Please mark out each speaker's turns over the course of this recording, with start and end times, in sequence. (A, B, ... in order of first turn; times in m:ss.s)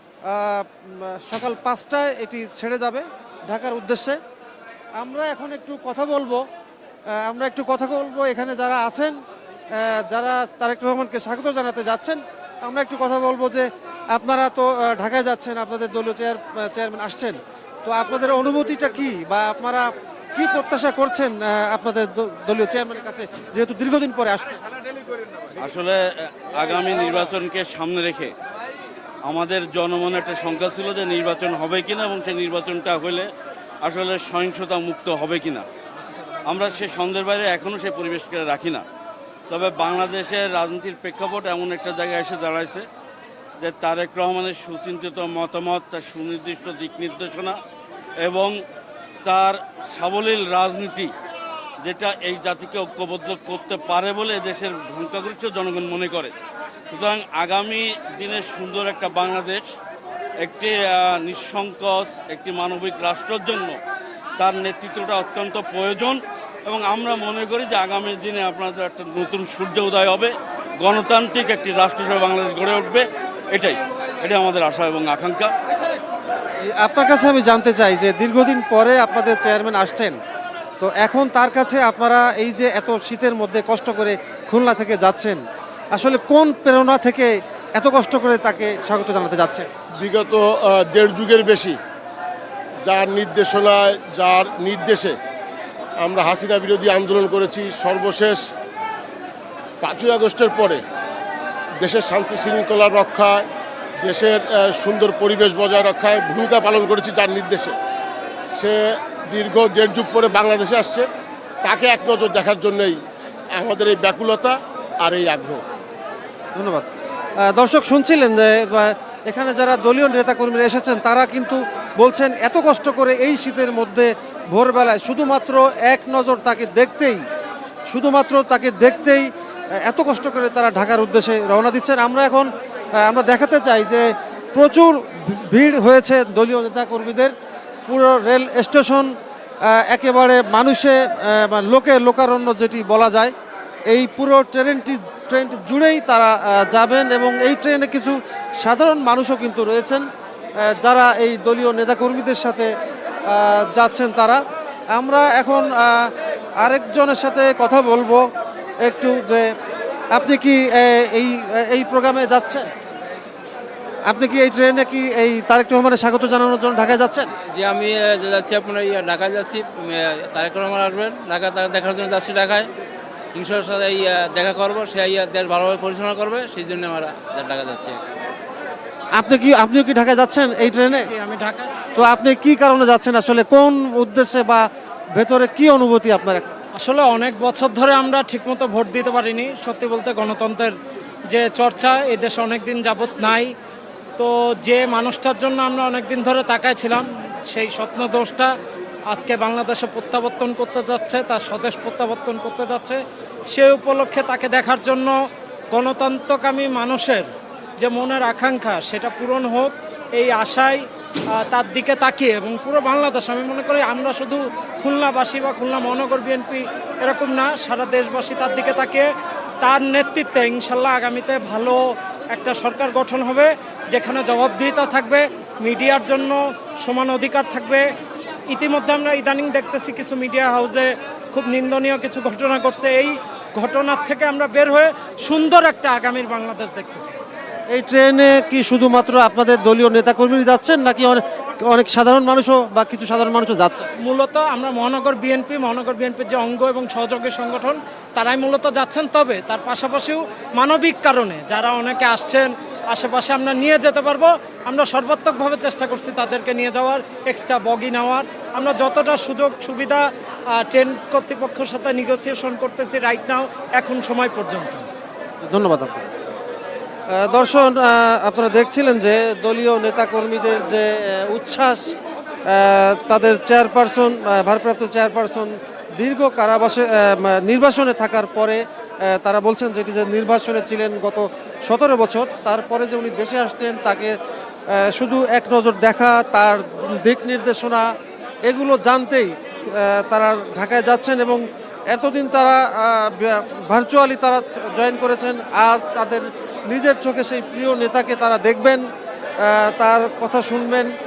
0:00.3-0:04.2 A
0:05.0-0:06.4 A
0:07.2-0:09.2 A
0:09.8-0:24.6 A
0:25.6-0:28.3 B
0:29.3-0:33.3 B
0:33.8-0:35.6 B
0:36.5-0:38.8 B
0:39.5-0:42.8 B
0:43.6-0:47.6 B
0:48.2-0:48.6 B
0:49.2-0:51.1 B
0:51.8-0:56.3 B
0:56.9-0:59.6 B
1:00.4-1:03.8 B
1:04.4-1:15.6 B
1:16.7-1:20.2 A
1:20.8-1:25.4 A
1:25.9-1:29.7 A
1:30.0-1:31.8 C
1:32.9-1:35.2 C
1:36.0-1:38.4 C
1:39.8-1:40.8 C
1:41.8-1:43.5 C
1:44.0-1:47.8 C
1:49.3-1:51.1 C
1:51.6-1:53.0 C
1:53.6-1:55.6 C
1:56.6-1:56.9 A
1:57.4-2:07.2 A
2:07.9-2:09.3 A
2:09.8-2:17.3 A
2:17.9-2:19.1 A
2:19.6-2:23.3 A
2:23.9-2:30.1 A
2:30.6-2:32.7 A
2:33.3-2:34.4 A
2:34.9-2:38.2 A
2:38.8-2:39.5 A
2:40.1-2:42.7 A
2:44.1-2:47.3 A
2:47.5-2:52.7 D
2:53.3-2:58.0 D
2:59.2-3:01.1 A
3:00.8-3:01.7 E
3:02.0-3:06.5 A
3:06.8-3:10.8 E
3:11.3-3:13.5 E
3:14.2-3:18.5 E
3:19.1-3:25.2 E
3:25.7-3:30.8 E
3:31.4-3:39.1 E
3:39.6-3:41.8 E
3:42.3-3:47.9 E
3:48.5-3:57.2 E
3:57.7-4:03.9 A
4:04.0-4:20.1 E
4:20.6-4:24.8 E
4:25.4-4:26.0 A
4:27.1-4:31.9 A
4:32.5-4:44.1 A
4:44.7-4:47.9 A
4:48.5-4:58.8 A
4:59.4-5:00.9 A